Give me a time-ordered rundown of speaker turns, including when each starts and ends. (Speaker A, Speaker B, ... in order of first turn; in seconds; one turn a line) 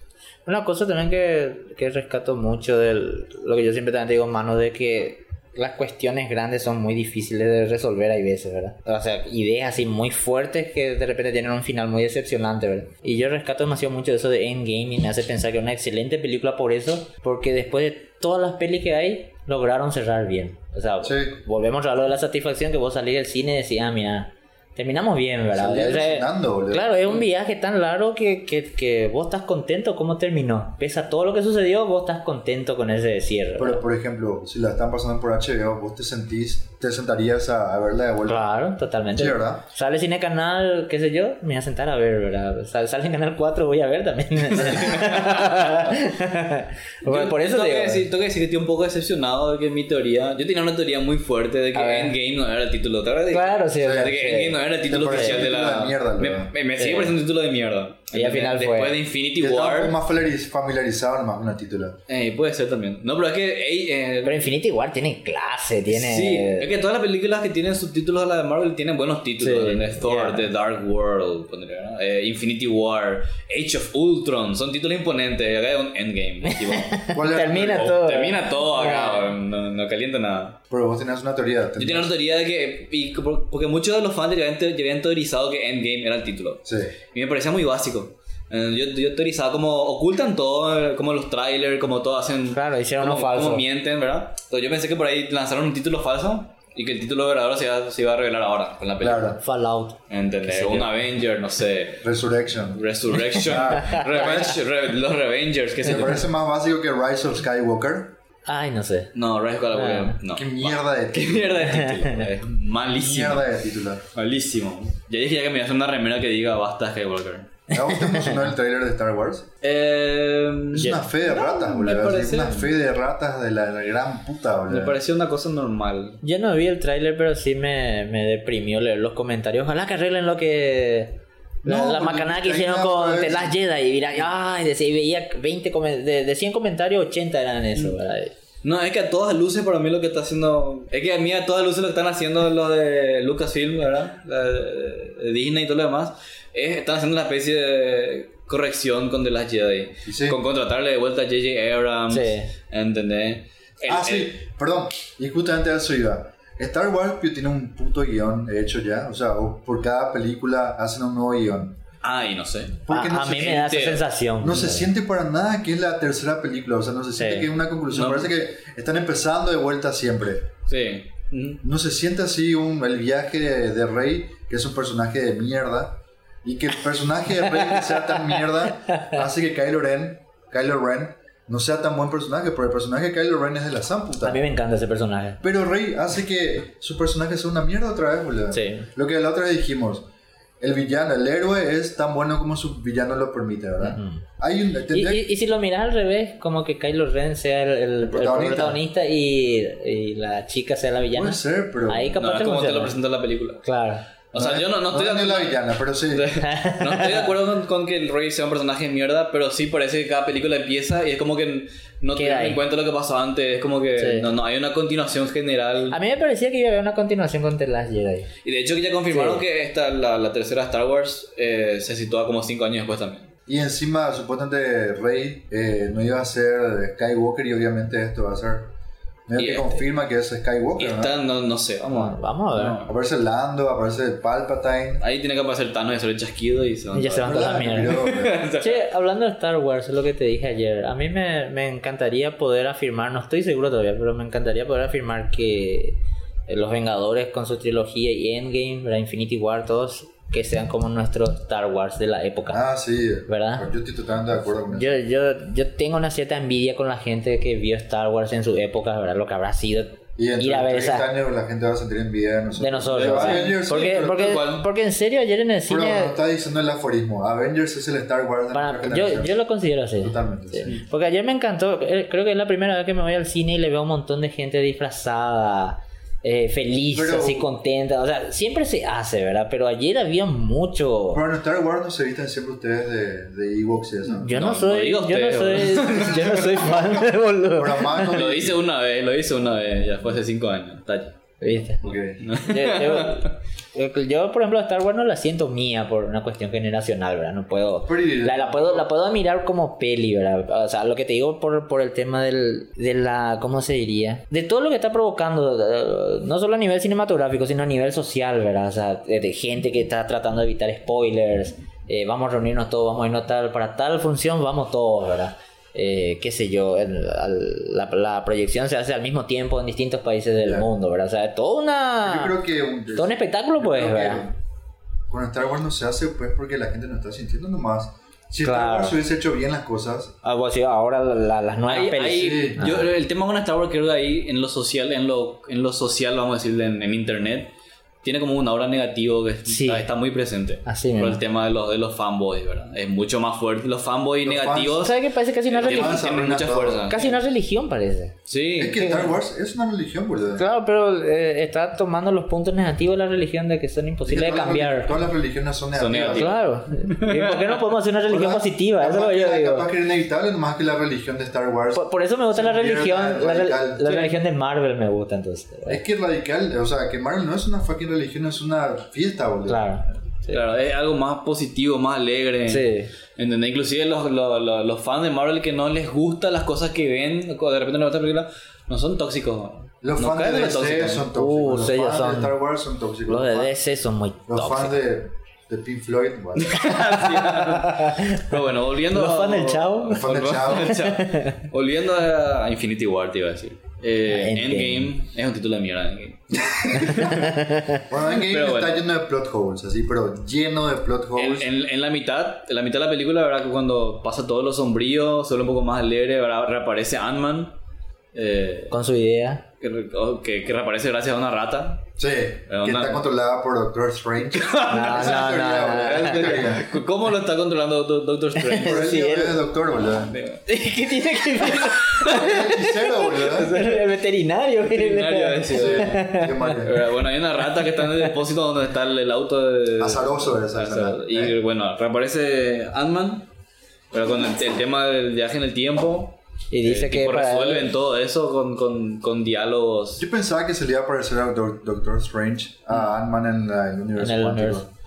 Speaker A: 0.5-33.8
Speaker B: 21.0-21.4
Speaker B: 25.5-27.2
Speaker B: 33.6-38.5
Speaker A: 38.3-48.1
Speaker B: 39.2-39.6
Speaker C: 44.5-45.7
Speaker C: 47.0-60.0
Speaker A: 51.7-52.1
Speaker A: 53.3-55.5
Speaker B: 53.8-54.1
Speaker B: 54.9-56.5
Speaker A: 56.8-57.2
Speaker A: 58.1-58.9
Speaker B: 59.4-62.0
Speaker C: 62.1-64.5
Speaker A: 64.2-66.7
Speaker C: 65.9-80.6
Speaker A: 69.4-70.5
Speaker A: 76.5-79.3
Speaker B: 77.1-78.0
Speaker B: 80.7-82.1
Speaker C: 81.8-99.4
Speaker B: 86.7-87.0
Speaker A: 92.5-93.6
Speaker B: 99.0-99.4
Speaker A: 99.4-100.9
Speaker C: 100.1-102.1
Speaker B: 102.0-102.8
Speaker C: 102.8-106.2
Speaker B: 103.3-104.5
Speaker A: 103.7-104.3
Speaker B: 105.8-108.1
Speaker A: 108.5-109.1
Speaker C: 109.2-113.5
Speaker A: 109.7-110.2
Speaker B: 110.3-111.7
Speaker A: 111.6-112.3
Speaker B: 113.0-114.0
Speaker C: 114.1-117.5
Speaker B: 117.7-119.5
Speaker A: 117.7-118.5
Speaker C: 119.6-122.7
Speaker B: 120.7-125.0
Speaker C: 124.7-126.2
Speaker A: 126.2-138.3
Speaker B: 131.6-133.6
Speaker C: 138.6-154.3
Speaker B: 150.1-150.4
Speaker A: 152.1-152.5
Speaker B: 153.9-161.8
Speaker C: 162.0-164.1
Speaker B: 162.8-163.7
Speaker A: 162.9-164.9
Speaker B: 164.4-170.5
Speaker A: 167.2-167.5
Speaker C: 167.9-168.3
Speaker C: 170.7-171.6
Speaker B: 171.6-184.4
Speaker A: 177.4-179.2
Speaker A: 184.2-185.4
Speaker B: 185.4-190.1
Speaker A: 188.5-188.9
Speaker B: 190.6-195.2
Speaker A: 193.8-194.2
Speaker A: 194.9-203.0
Speaker B: 198.0-198.8
Speaker B: 201.1-202.2
Speaker C: 202.2-203.6
Speaker A: 203.6-204.0
Speaker C: 204.3-205.6
Speaker B: 204.3-206.3
Speaker C: 206.1-216.0
Speaker A: 206.4-207.3
Speaker A: 212.1-212.6
Speaker A: 214.0-214.3
Speaker A: 215.9-218.3
Speaker C: 218.4-223.3
Speaker A: 219.1-219.4
Speaker B: 223.5-228.7
Speaker B: 229.3-231.2
Speaker C: 229.4-229.8
Speaker C: 230.8-232.9
Speaker A: 231.9-232.8
Speaker B: 232.9-235.0
Speaker C: 235.0-238.8
Speaker A: 236.9-238.0
Speaker B: 237.2-238.4
Speaker A: 238.6-252.6
Speaker B: 252.5-254.9
Speaker A: 253.3-253.7
Speaker A: 254.7-261.1
Speaker B: 260.2-264.3
Speaker A: 262.6-266.2
Speaker C: 262.9-264.7
Speaker B: 265.7-269.3
Speaker A: 268.5-281.2
Speaker B: 270.0-270.8
Speaker B: 276.9-277.5
Speaker B: 281.1-284.3
Speaker A: 284.1-288.3
Speaker C: 284.3-286.9
Speaker B: 287.5-288.6
Speaker C: 288.1-291.1
Speaker A: 291.4-322.4
Speaker B: 291.8-292.2
Speaker C: 292.2-293.3
Speaker B: 297.9-298.9
Speaker B: 320.4-320.7
Speaker B: 322.0-324.4
Speaker A: 322.9-324.3
Speaker B: 325.1-330.1
Speaker A: 328.4-329.0
Speaker A: 330.2-332.9
Speaker C: 331.7-337.5
Speaker B: 332.1-332.6
Speaker C: 338.0-345.0
Speaker A: 339.5-339.9
Speaker A: 340.7-341.2
Speaker B: 344.2-344.9
Speaker A: 344.8-346.0
Speaker C: 345.5-347.2
Speaker B: 345.5-347.1
Speaker A: 346.9-348.1
Speaker C: 348.3-349.0
Speaker B: 348.6-350.5
Speaker A: 350.4-354.9
Speaker B: 354.1-356.4
Speaker C: 355.8-357.6
Speaker A: 356.1-359.7
Speaker B: 358.1-364.1
Speaker A: 361.8-365.8
Speaker B: 365.7-369.7
Speaker A: 369.5-370.4
Speaker C: 370.3-381.1
Speaker A: 372.5-372.9
Speaker B: 379.8-383.5
Speaker A: 381.1-382.4
Speaker A: 383.1-384.8
Speaker B: 384.3-386.8
Speaker C: 386.4-397.2
Speaker A: 386.6-388.3
Speaker A: 388.9-391.4
Speaker B: 389.9-390.8
Speaker A: 394.1-394.9
Speaker B: 396.3-397.3
Speaker A: 396.7-397.9
Speaker B: 397.9-401.5
Speaker C: 398.2-398.8
Speaker C: 401.2-407.5
Speaker C: 408.1-408.7
Speaker A: 408.7-409.4
Speaker C: 409.6-411.9
Speaker B: 412.0-416.7
Speaker C: 412.5-413.0
Speaker C: 414.3-418.8
Speaker A: 414.7-416.5
Speaker A: 418.4-419.4
Speaker B: 418.6-420.2
Speaker C: 419.9-420.4
Speaker A: 420.5-426.5
Speaker C: 421.4-422.2
Speaker B: 422.1-423.6
Speaker C: 423.5-423.8
Speaker C: 424.6-433.3
Speaker B: 425.5-426.8
Speaker A: 427.8-428.1
Speaker B: 429.8-431.4
Speaker C: 433.9-440.0
Speaker A: 436.5-437.7
Speaker B: 440.0-444.7
Speaker A: 444.0-444.7